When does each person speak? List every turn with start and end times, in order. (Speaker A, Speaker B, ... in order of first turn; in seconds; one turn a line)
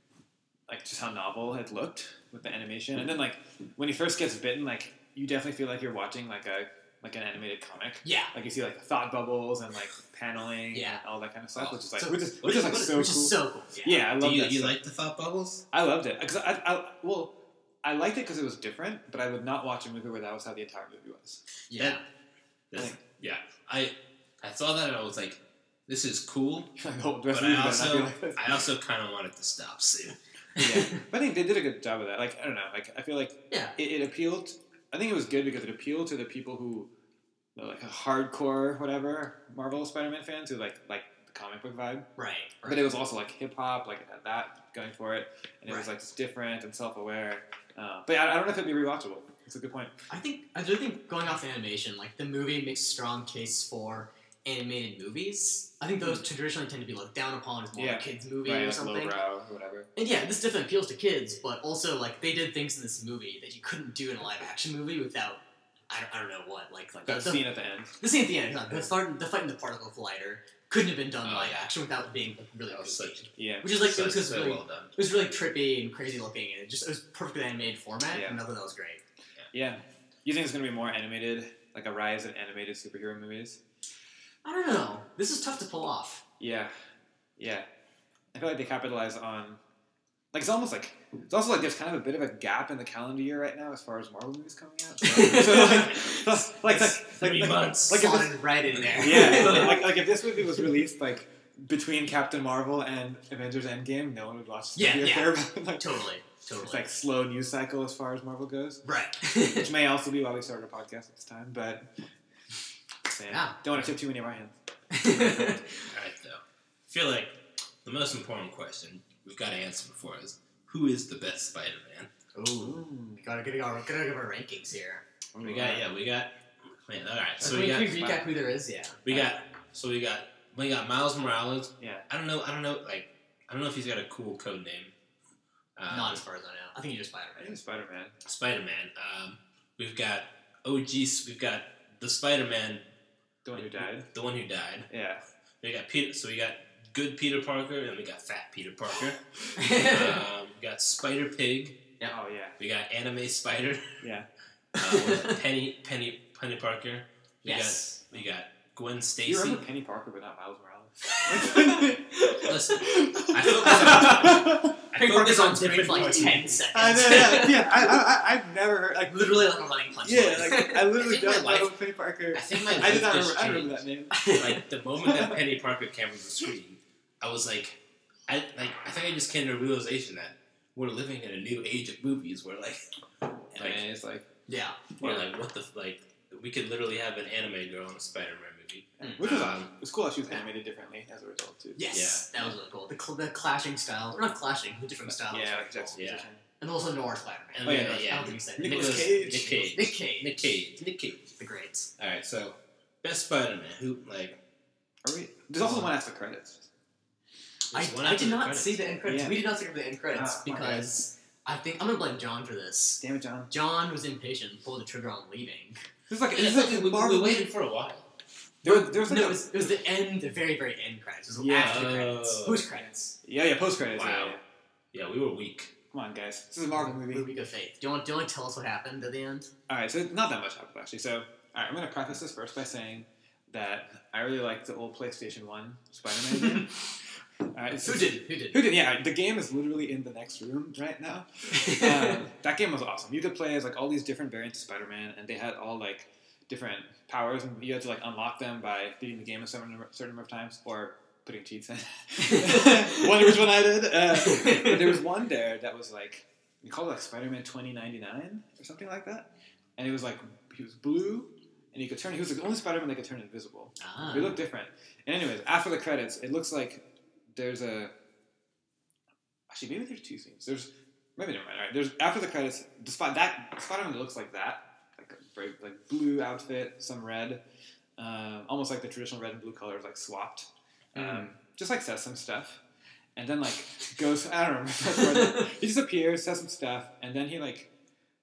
Speaker A: 0.7-14.8
Speaker B: 8.0-8.3
Speaker B: 10.7-11.0
Speaker B: 11.9-14.0
Speaker C: 14.2-15.7
Speaker A: 15.7-21.4
Speaker B: 21.7-22.0
Speaker C: 22.7-26.7
Speaker A: 22.8-23.0
Speaker A: 26.8-28.6
Speaker C: 27.3-30.2
Speaker A: 30.6-36.9
Speaker B: 30.6-30.9
Speaker A: 37.6-42.1
Speaker B: 42.2-42.9
Speaker A: 42.6-50.0
Speaker B: 50.1-59.1
Speaker A: 57.8-59.9
Speaker B: 60.0-67.4
Speaker A: 67.0-68.0
Speaker B: 68.0-79.0
Speaker C: 71.2-71.7
Speaker C: 72.7-74.9
Speaker A: 73.4-73.7
Speaker A: 78.1-78.4
Speaker A: 79.5-83.6
Speaker B: 84.4-86.2
Speaker A: 86.4-86.7
Speaker A: 87.4-87.7
Speaker A: 88.3-89.6
Speaker A: 90.3-98.4
Speaker B: 95.0-96.2
Speaker C: 95.6-96.1
Speaker C: 96.7-98.1
Speaker B: 97.9-99.9
Speaker C: 98.8-99.8
Speaker A: 98.9-105.9
Speaker B: 104.8-106.9
Speaker A: 106.6-108.8
Speaker B: 108.8-109.7
Speaker A: 109.5-111.9
Speaker A: 113.1-115.6
Speaker B: 113.3-113.9
Speaker B: 114.9-115.6
Speaker C: 115.9-122.1
Speaker B: 122.3-125.0
Speaker A: 122.6-123.3
Speaker A: 125.3-125.9
Speaker C: 125.4-128.1
Speaker A: 127.4-128.3
Speaker B: 127.4-129.2
Speaker C: 129.1-134.9
Speaker A: 131.8-132.1
Speaker C: 135.8-136.2
Speaker B: 135.9-137.6
Speaker A: 137.4-138.2
Speaker C: 138.2-142.9
Speaker A: 143.4-144.1
Speaker C: 143.5-144.9
Speaker A: 144.9-145.2
Speaker C: 145.6-151.8
Speaker B: 149.6-150.2
Speaker A: 152.1-152.6
Speaker C: 152.6-153.9
Speaker A: 154.0-154.3
Speaker C: 154.8-159.7
Speaker B: 154.8-155.3
Speaker B: 157.4-158.0
Speaker A: 159.2-164.8
Speaker B: 161.4-162.6
Speaker C: 162.4-166.6
Speaker B: 163.5-168.0
Speaker A: 166.1-169.4
Speaker B: 169.1-171.0
Speaker A: 170.0-174.4
Speaker C: 170.9-171.8
Speaker C: 172.3-182.8
Speaker B: 172.6-173.0
Speaker B: 174.1-174.6
Speaker A: 175.0-175.4
Speaker C: 183.5-183.8
Speaker A: 183.6-184.3
Speaker B: 184.5-184.9
Speaker A: 185.0-185.3
Speaker C: 185.0-189.7
Speaker B: 189.0-189.3
Speaker A: 189.0-192.5
Speaker B: 191.8-200.5
Speaker C: 191.9-192.3
Speaker A: 195.1-196.4
Speaker C: 196.0-196.3
Speaker C: 197.5-201.3
Speaker A: 197.6-199.6
Speaker B: 201.4-201.9
Speaker C: 202.0-204.4
Speaker A: 205.0-206.7
Speaker C: 207.7-209.0
Speaker B: 207.7-215.8
Speaker A: 209.1-209.5
Speaker A: 210.1-210.9
Speaker A: 213.0-213.5
Speaker A: 216.1-217.5
Speaker C: 216.3-218.1
Speaker A: 218.6-219.5
Speaker B: 218.6-223.2
Speaker A: 221.4-221.9
Speaker C: 221.6-222.7
Speaker A: 222.8-224.4
Speaker C: 223.9-224.4
Speaker C: 224.9-225.7
Speaker A: 225.9-227.3
Speaker B: 226.7-229.5
Speaker A: 229.7-236.7
Speaker B: 236.2-236.7
Speaker A: 237.5-266.8
Speaker B: 237.8-238.7
Speaker B: 241.6-242.1
Speaker B: 252.3-253.1
Speaker B: 254.2-255.0
Speaker B: 263.8-264.4
Speaker A: 267.4-267.9
Speaker A: 269.5-277.4
Speaker A: 278.0-282.6
Speaker B: 280.9-281.3
Speaker A: 283.2-287.7
Speaker B: 285.0-285.5